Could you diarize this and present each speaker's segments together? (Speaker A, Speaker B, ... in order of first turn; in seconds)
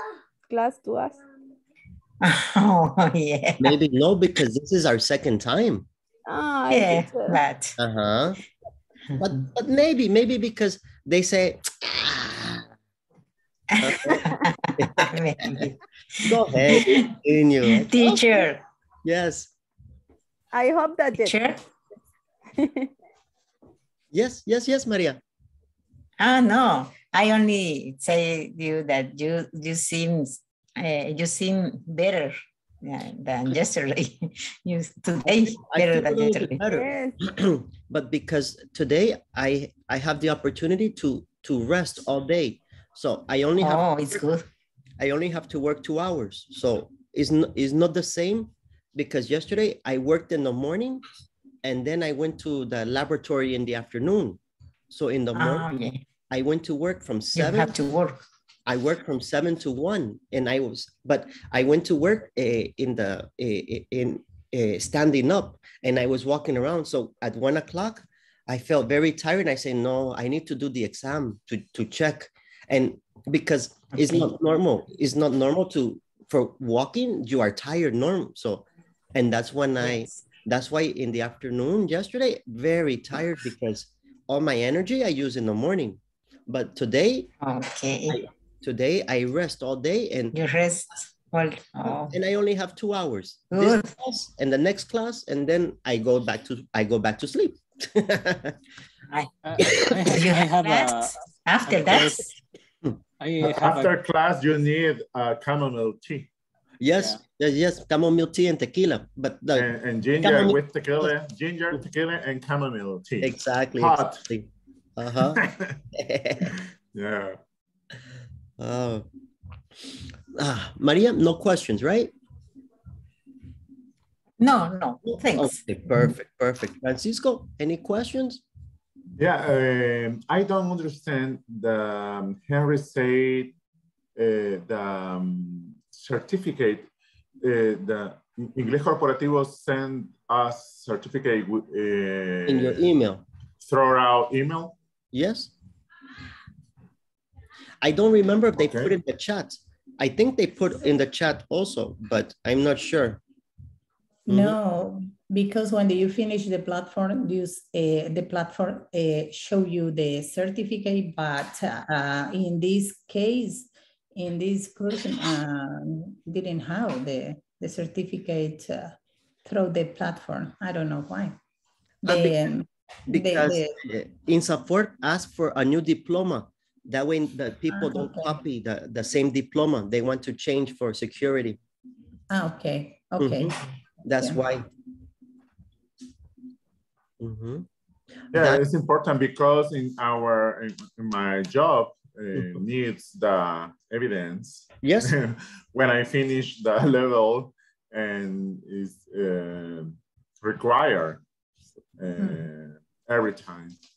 Speaker A: 0.5-1.2, 6.3-7.4, 20.5-21.4, 22.6-22.9, 36.7-37.2
Speaker B: 2.2-3.8, 6.7-7.8, 13.7-17.1, 17.6-18.6, 21.2-21.6, 26.2-36.6, 43.6-44.5, 55.3-56.0, 57.3-58.2, 73.9-74.3, 79.8-80.2, 87.4-88.2, 90.3-92.2, 93.5-93.9, 99.1-102.3, 124.4-125.6
Speaker C: 3.6-5.9, 7.8-8.4, 9.2-12.7, 13.8-18.4, 19.0-19.5, 24.1-25.2, 35.2-44.2, 45.0-51.0, 51.6-57.8, 58.6-87.3, 88.1-90.3, 92.0-98.6, 106.8-111.1, 113.2-116.5, 118.6-119.0, 120.3-122.1, 125.0-128.4, 142.5-143.2, 145.1-145.5, 147.8-153.2, 154.3-154.6, 172.1-172.6, 173.1-181.6, 183.2-183.5, 184.0-184.7, 187.2-187.7, 188.3-188.6, 192.3-192.6, 194.8-195.1
Speaker D: 99.5-101.1, 101.7-102.2, 103.2-103.9
Speaker E: 103.4-106.3, 109.5-114.2, 115.3-115.6, 116.5-117.4, 129.2-133.5, 134.2-136.9, 137.4-142.8, 143.6-144.8, 148.6-148.9, 188.3-201.2, 202.0-203.7
Speaker F: 154.3-171.3, 172.0-173.8, 177.7-178.4, 182.3-183.5, 202.2-202.4